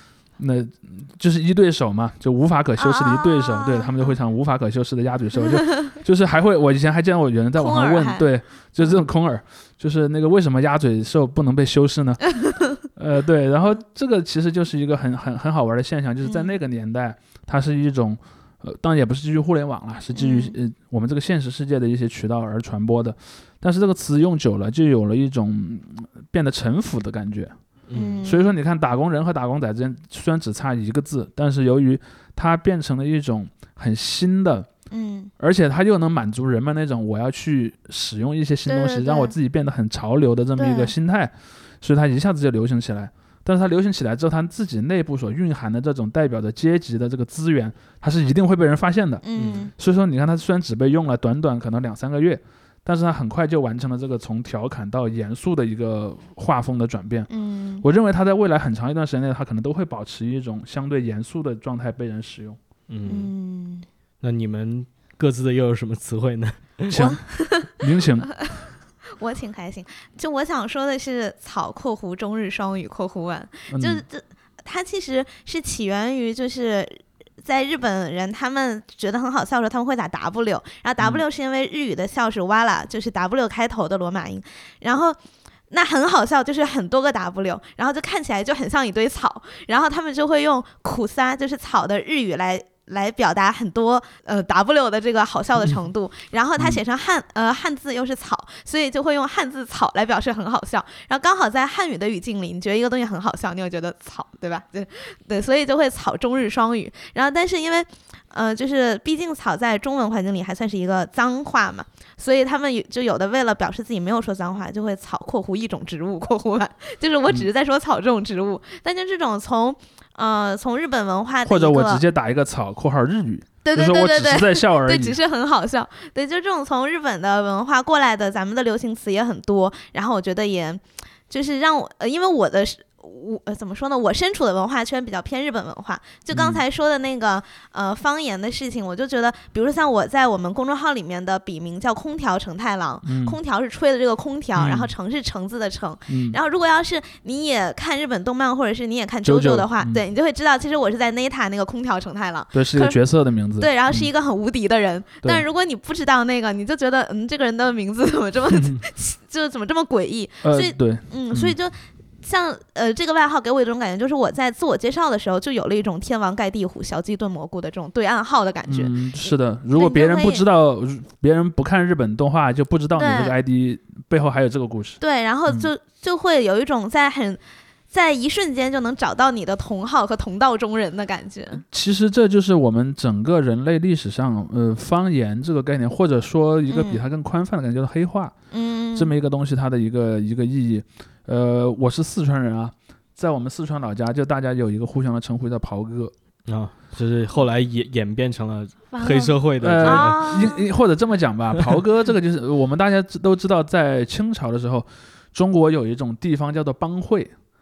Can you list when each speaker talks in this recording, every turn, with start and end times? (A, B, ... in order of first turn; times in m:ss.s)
0:00.4-0:12.2 A
0:02.8-0:04.1 B
0:05.6-0:05.9 B
0:07.6-0:08.3 B
0:12.3-0:12.7 B
0:12.8-0:27.5 A
0:16.2-0:16.5 B
0:20.1-0:20.6 B
0:27.9-0:28.2 C
0:27.9-0:28.5 B
0:28.2-0:34.7 A
0:34.9-0:35.3 B
0:35.4-0:49.2 A
0:38.6-0:39.3 B
0:40.6-0:40.9 B
0:49.2-0:49.7 B
0:49.4-0:49.7 C
0:49.8-0:57.3 A
0:57.3-0:57.8 B
0:57.8-1:02.6 A
1:02.9-1:03.3 C
1:03.1-1:03.9 B
1:04.2-1:07.0 C
1:06.9-1:08.3 A
1:06.9-1:07.8 B
1:09.2-1:25.2 B
1:13.7-1:14.0 A
1:25.7-2:02.0 B
2:01.4-2:05.2 A
2:03.6-2:33.0 B
2:16.3-2:16.6 A
2:23.0-2:23.4 A
2:24.6-2:24.9 A
2:26.1-2:26.4 A
2:29.2-2:30.0 A
2:32.5-2:34.1 A
2:33.6-2:50.4 B
2:40.4-2:41.6 A
2:48.7-2:55.7 A
2:53.0-2:53.4 B
2:55.0-3:01.6 B
3:01.6-3:08.4 A
3:06.7-3:07.0 B
3:08.5-3:09.1 B
3:09.0-3:16.1 A
3:16.5-3:20.5 C
3:18.9-3:20.6 B
3:19.6-3:27.3 A